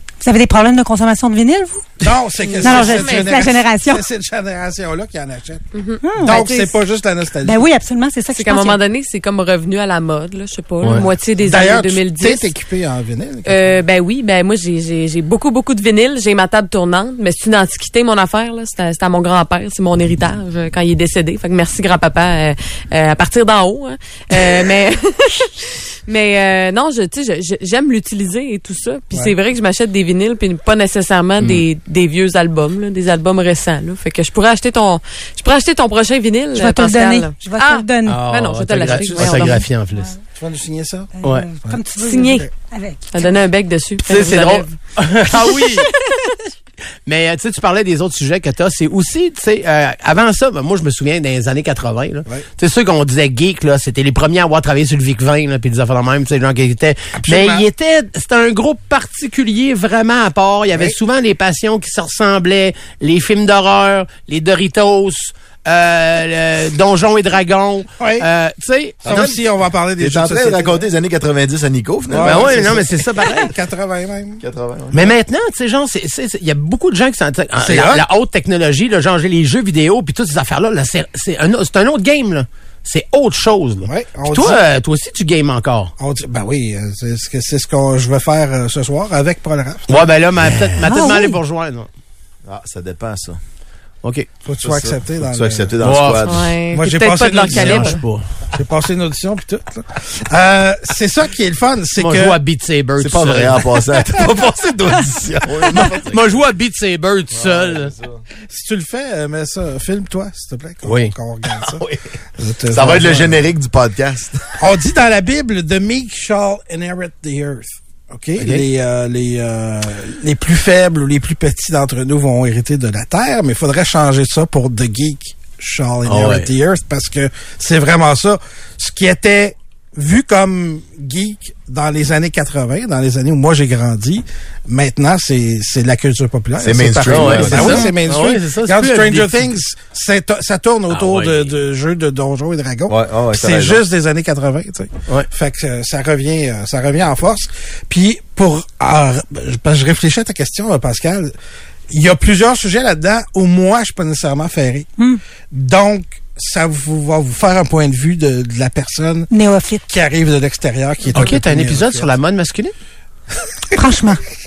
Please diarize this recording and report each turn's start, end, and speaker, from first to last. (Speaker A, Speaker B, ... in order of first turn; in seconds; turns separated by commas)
Speaker A: 0.2-2.0, Speaker B: 2.0-5.6, Speaker C: 2.4-3.3, Speaker A: 2.6-4.0, Speaker C: 5.7-6.7, Speaker A: 6.0-6.7, Speaker B: 6.2-7.7, Speaker A: 7.4-8.8, Speaker C: 8.3-12.5, Speaker D: 10.8-11.1, Speaker B: 10.9-13.8, Speaker C: 13.4-39.6, Speaker D: 31.4-31.6, Speaker A: 36.5-38.2, Speaker D: 38.0-40.1, Speaker B: 39.2-39.6, Speaker B: 40.4-41.8, Speaker A: 41.2-43.3, Speaker C: 41.9-42.5, Speaker C: 43.1-44.8, Speaker D: 44.0-45.9, Speaker C: 45.9-46.2, Speaker D: 47.0-69.2, Speaker B: 57.2-57.6, Speaker B: 68.0-68.2, Speaker E: 69.0-69.4, Speaker B: 69.0-70.8, Speaker E: 70.0-72.8, Speaker B: 72.1-74.4, Speaker D: 72.2-73.5, Speaker E: 74.4-75.1, Speaker D: 74.9-85.9, Speaker B: 77.6-78.0, Speaker B: 83.8-84.6, Speaker B: 86.0-89.9, Speaker D: 89.9-91.9, Speaker A: 90.8-91.4, Speaker E: 92.5-93.4, Speaker D: 94.0-94.3, Speaker B: 94.4-95.7, Speaker E: 94.6-96.5, Speaker D: 95.8-96.3, Speaker C: 96.2-98.0, Speaker B: 96.7-98.0, Speaker D: 97.5-98.2, Speaker B: 98.5-102.4, Speaker D: 102.0-103.8, Speaker E: 103.0-106.3, Speaker D: 105.7-107.9, Speaker E: 107.3-108.2, Speaker B: 108.5-111.8, Speaker D: 110.8-111.1, Speaker B: 112.4-113.4, Speaker E: 112.7-114.5, Speaker B: 114.6-151.3, Speaker D: 118.4-118.6, Speaker D: 126.0-126.5, Speaker E: 136.6-137.9, Speaker D: 137.1-139.5, Speaker D: 140.9-141.5, Speaker E: 142.9-143.8, Speaker B: 151.9-154.9, Speaker B: 155.5-159.3, Speaker A: 159.3-159.8, Speaker B: 159.9-162.1, Speaker D: 161.1-162.7, Speaker A: 163.8-164.2